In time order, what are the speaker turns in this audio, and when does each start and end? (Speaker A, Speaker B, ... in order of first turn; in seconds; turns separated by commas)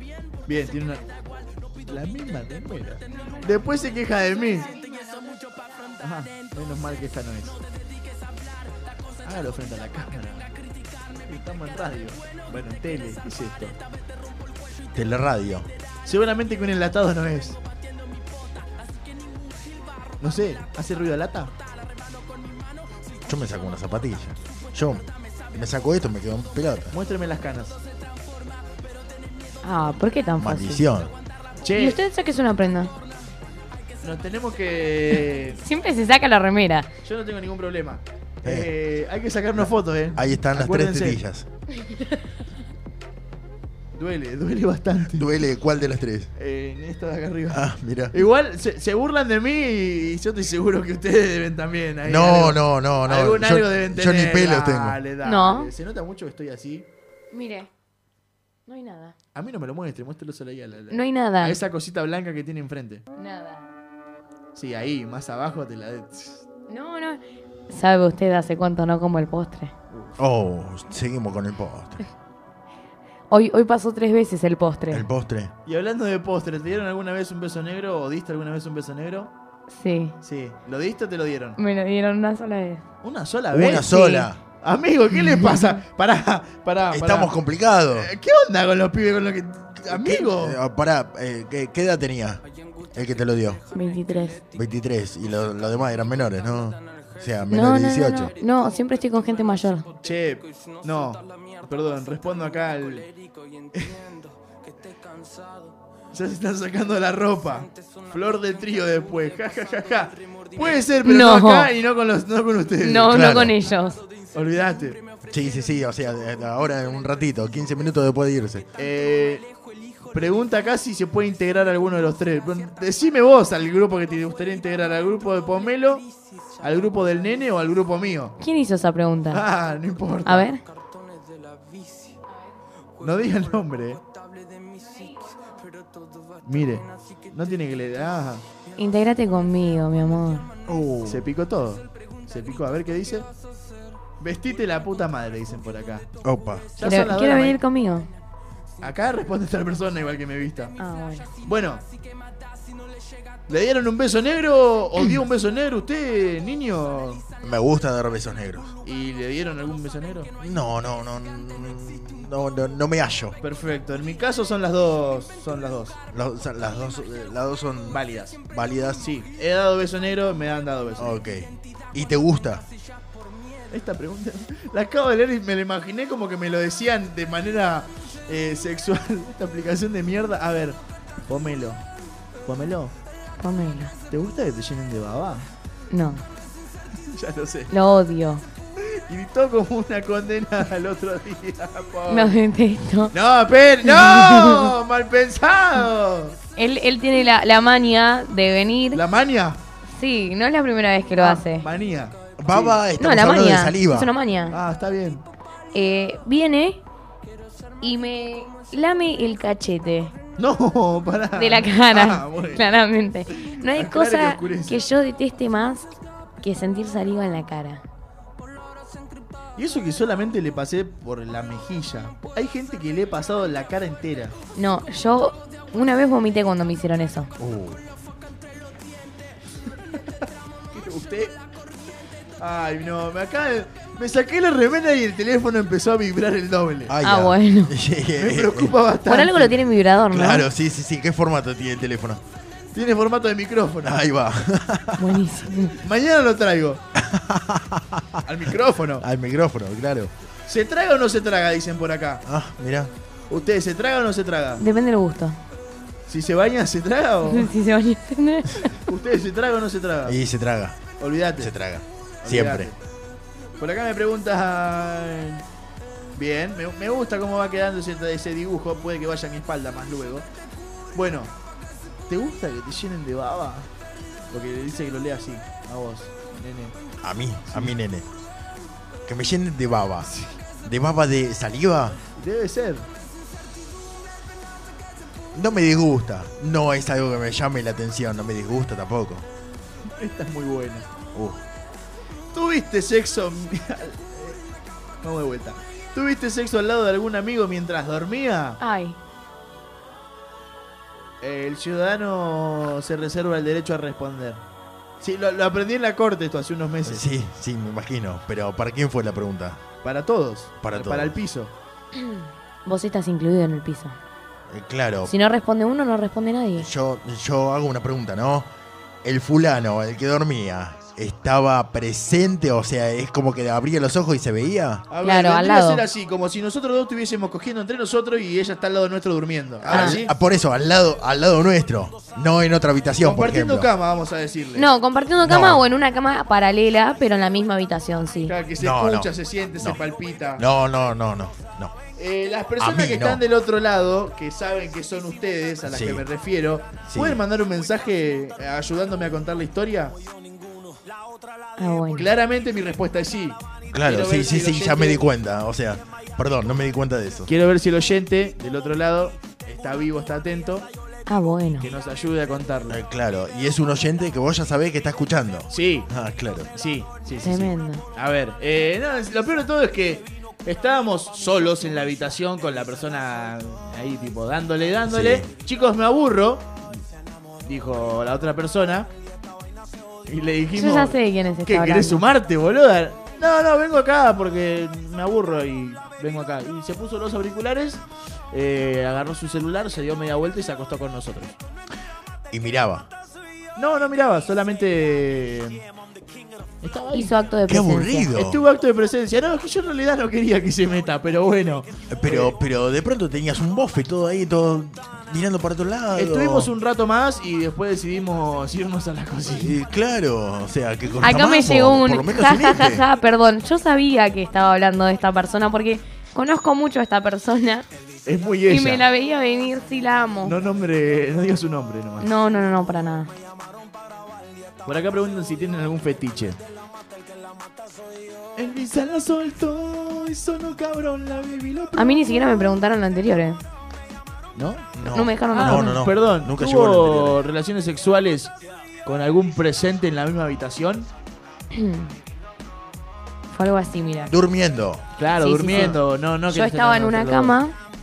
Speaker A: 0.5-1.0, Speaker A: 1.8-4.7, Speaker A: 6.0-7.6, Speaker A: 9.2-10.5, Speaker A: 11.2-13.8, Speaker B: 14.9-15.7, Speaker A: 16.1-17.6, Speaker A: 20.2-21.5, Speaker B: 23.2-26.9, Speaker A: 26.9-27.8, Speaker C: 29.6-30.9, Speaker B: 30.4-31.1, Speaker A: 31.6-32.0, Speaker C: 31.7-32.9, Speaker A: 34.0-35.6, Speaker C: 35.6-36.9, Speaker A: 37.0-41.2, Speaker B: 38.4-38.7, Speaker B: 39.6-41.5, Speaker C: 41.8-42.2, Speaker A: 43.9-45.4, Speaker B: 45.1-46.3, Speaker A: 46.4-56.8, Speaker B: 47.5-48.1, Speaker B: 52.0-55.0, Speaker C: 55.2-55.7, Speaker C: 57.3-57.7, Speaker C: 58.7-59.1, Speaker A: 59.3-63.0, Speaker C: 60.9-61.6, Speaker C: 63.2-63.7, Speaker A: 64.5-66.4, Speaker C: 66.7-69.7, Speaker B: 70.2-72.0, Speaker C: 73.3-75.0, Speaker B: 74.9-75.5, Speaker A: 75.7-79.3, Speaker C: 79.7-80.1, Speaker A: 80.2-81.6, Speaker C: 81.6-82.8, Speaker A: 83.0-83.9, Speaker B: 83.5-84.4, Speaker C: 83.8-84.3, Speaker A: 84.5-87.3, Speaker C: 85.3-85.6, Speaker B: 86.9-88.1, Speaker A: 87.9-90.6, Speaker B: 89.9-92.4, Speaker B: 92.9-93.6, Speaker C: 93.7-94.4, Speaker B: 94.5-98.3, Speaker C: 97.5-99.9, Speaker A: 100.0-103.0, Speaker A: 103.7-104.0, Speaker A: 106.1-113.2, Speaker C: 111.0-111.7, Speaker C: 112.8-114.0, Speaker B: 113.0-113.5, Speaker A: 114.3-115.0, Speaker B: 115.3-118.7, Speaker A: 118.8-119.4, Speaker A: 120.1-126.0, Speaker A: 126.6-128.3, Speaker C: 128.4-129.4, Speaker A: 129.3-130.5, Speaker C: 130.2-130.6, Speaker A: 133.0-134.0, Speaker A: 136.4-138.4, Speaker C: 138.8-140.5, Speaker B: 140.7-141.3, Speaker A: 141.0-143.3, Speaker A: 144.2-146.1, Speaker B: 146.2-146.7, Speaker A: 146.8-147.6, Speaker C: 146.8-148.1, Speaker A: 148.8-150.7, Speaker C: 150.8-151.3, Speaker A: 151.4-151.8, Speaker A: 153.5-157.2, Speaker B: 157.4-158.7, Speaker A: 158.8-160.3, Speaker B: 160.4-163.4, Speaker A: 163.4-166.0, Speaker B: 166.1-169.0, Speaker A: 167.9-168.4, Speaker A: 169.0-171.2, Speaker B: 171.0-172.7, Speaker A: 173.7-181.8, Speaker A: 182.4-182.9, Speaker C: 183.4-183.9, Speaker A: 184.1-185.5, Speaker C: 185.9-186.2, Speaker A: 187.1-187.7, Speaker C: 187.7-188.4, Speaker A: 188.8-192.4, Speaker C: 192.1-193.1, Speaker A: 193.1-196.3, Speaker C: 193.8-194.7, Speaker C: 196.6-199.0, Speaker A: 198.9-199.6, Speaker C: 199.9-201.7, Speaker A: 201.2-202.8, Speaker B: 202.4-204.1, Speaker C: 203.0-204.6, Speaker A: 204.5-205.2, Speaker C: 205.7-206.8, Speaker C: 207.8-210.1, Speaker A: 210.4-212.6, Speaker C: 211.4-215.9, Speaker A: 213.3-214.8, Speaker C: 216.4-217.8, Speaker A: 219.6-224.3, Speaker C: 224.5-227.3, Speaker B: 227.4-227.8, Speaker A: 230.7-231.3, Speaker A: 232.4-236.9, Speaker B: 236.9-238.7, Speaker C: 237.0-237.7, Speaker A: 238.2-239.6, Speaker C: 239.1-240.4, Speaker B: 240.1-242.2, Speaker A: 242.7-244.0, Speaker B: 243.8-245.2, Speaker C: 245.0-245.7, Speaker A: 245.8-246.8, Speaker B: 246.9-248.2, Speaker A: 248.2-249.0, Speaker B: 249.0-250.1, Speaker A: 250.5-252.2, Speaker B: 252.2-252.9, Speaker A: 253.3-254.6, Speaker C: 254.6-255.4, Speaker A: 256.1-257.5, Speaker C: 257.3-258.7, Speaker A: 258.8-260.2, Speaker B: 260.1-262.7, Speaker A: 261.0-261.5, Speaker A: 262.2-262.8, Speaker A: 263.6-265.4, Speaker A: 266.1-270.2, Speaker A: 270.9-271.3, Speaker A: 272.1-273.7, Speaker A: 274.3-276.7, Speaker B: 277.0-278.1, Speaker B: 279.1-280.1, Speaker B: 280.6-282.0, Speaker A: 282.1-282.9, Speaker B: 285.3-289.3, Speaker A: 290.0-290.9, Speaker B: 291.1-291.4, Speaker A: 292.3-294.4, Speaker A: 295.0-298.6, Speaker C: 298.6-299.0, Speaker A: 301.2-304.4, Speaker A: 305.0-307.1, Speaker B: 306.8-309.6, Speaker A: 309.8-311.5, Speaker B: 310.6-311.1, Speaker C: 311.9-314.0, Speaker B: 314.5-315.1, Speaker C: 315.1-316.7, Speaker B: 316.6-318.5, Speaker B: 319.0-324.8, Speaker A: 324.9-330.1, Speaker C: 325.0-325.8, Speaker B: 329.6-333.7, Speaker C: 329.7-330.0, Speaker A: 333.0-334.7, Speaker C: 334.6-338.3, Speaker B: 335.2-335.6, Speaker A: 338.3-340.4, Speaker B: 338.6-339.8, Speaker B: 340.4-341.8, Speaker A: 342.0-349.9, Speaker B: 342.6-343.2, Speaker B: 345.6-346.0, Speaker B: 346.9-347.2, Speaker C: 351.6-352.1, Speaker A: 351.9-355.0, Speaker B: 353.7-357.3, Speaker A: 357.3-360.7, Speaker C: 361.1-361.7, Speaker A: 361.6-362.8, Speaker B: 362.7-366.5, Speaker A: 365.5-365.9, Speaker A: 366.5-376.6, Speaker C: 367.2-367.8, Speaker B: 374.9-375.3, Speaker A: 377.4-378.9, Speaker A: 380.1-391.4, Speaker C: 380.6-382.0, Speaker B: 392.3-392.9, Speaker A: 393.6-395.6, Speaker A: 396.6-397.1, Speaker C: 396.9-398.1, Speaker B: 397.5-398.4, Speaker A: 398.1-402.4, Speaker B: 401.9-406.5, Speaker A: 405.9-409.6, Speaker B: 409.2-412.8, Speaker C: 411.0-417.7, Speaker A: 418.1-418.9, Speaker C: 418.5-420.4, Speaker A: 420.2-422.1, Speaker C: 422.0-423.1, Speaker A: 424.6-426.4, Speaker A: 428.4-432.1, Speaker C: 431.8-433.4, Speaker A: 434.4-434.7, Speaker B: 434.7-437.2, Speaker C: 434.9-435.8, Speaker A: 435.3-438.3, Speaker A: 438.9-440.9, Speaker C: 441.5-441.9, Speaker C: 443.3-444.1, Speaker B: 444.1-444.8, Speaker A: 445.0-447.4, Speaker C: 445.2-447.5